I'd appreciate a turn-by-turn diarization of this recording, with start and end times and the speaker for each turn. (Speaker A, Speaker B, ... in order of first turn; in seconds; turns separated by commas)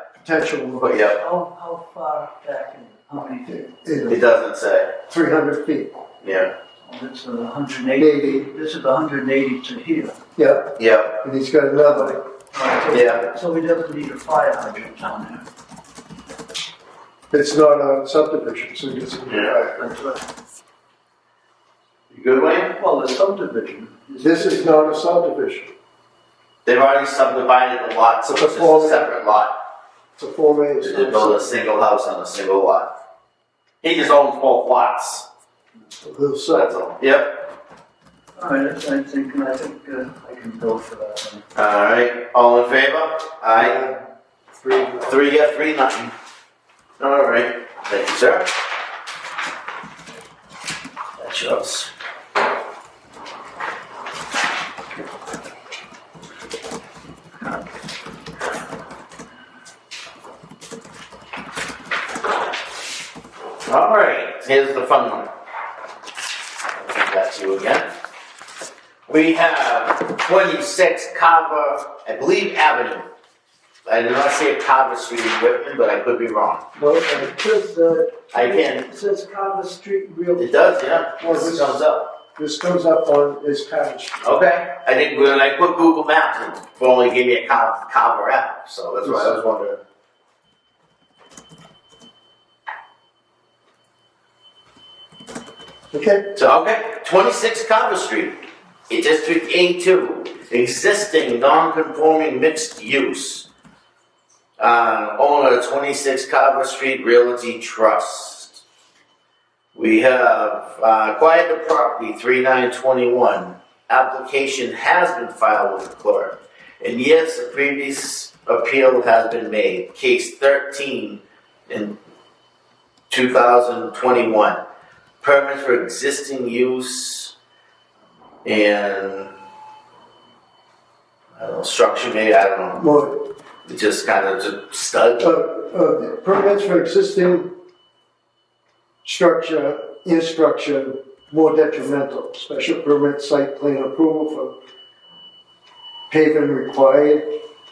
Speaker A: 0.2-1.1, Speaker B: 0.8-1.2, Speaker C: 1.0-3.7, Speaker A: 3.5-4.2, Speaker B: 4.1-4.9, Speaker A: 5.1-5.9, Speaker B: 6.2-6.5, Speaker C: 6.8-10.2, Speaker A: 8.0-8.5, Speaker A: 10.4-12.2, Speaker B: 10.8-11.2, Speaker C: 12.5-15.4, Speaker B: 12.9-13.2, Speaker A: 17.3-19.8, Speaker B: 19.3-19.6, Speaker C: 19.8-20.2, Speaker B: 22.1-22.8, Speaker C: 22.7-24.8, Speaker A: 24.2-25.7, Speaker B: 26.7-29.5, Speaker A: 28.3-29.1, Speaker A: 30.2-31.5, Speaker B: 30.8-32.9, Speaker B: 33.8-35.3, Speaker A: 36.0-36.8, Speaker B: 36.5-37.4, Speaker C: 38.4-41.4, Speaker B: 41.5-43.8, Speaker A: 43.6-44.0, Speaker A: 44.6-45.1, Speaker B: 45.1-46.1, Speaker B: 47.0-48.5, Speaker B: 51.2-51.9, Speaker B: 63.7-65.3, Speaker B: 66.8-67.9, Speaker B: 69.1-73.1, Speaker B: 73.9-76.6, Speaker A: 76.8-77.3, Speaker C: 77.1-80.6, Speaker B: 78.3-78.9, Speaker B: 80.4-82.1, Speaker A: 81.2-81.8, Speaker A: 82.4-84.2, Speaker B: 84.2-89.8, Speaker A: 89.0-89.4, Speaker A: 95.9-96.3, Speaker B: 96.3-103.5, Speaker B: 104.6-108.6, Speaker B: 109.8-122.0, Speaker B: 123.1-124.6, Speaker B: 125.2-127.3, Speaker B: 128.4-129.3, Speaker B: 131.4-132.9, Speaker A: 132.8-133.2, Speaker B: 133.7-135.3, Speaker A: 135.2-137.5, Speaker A: 139.0-144.5, Speaker A: 146.1-147.3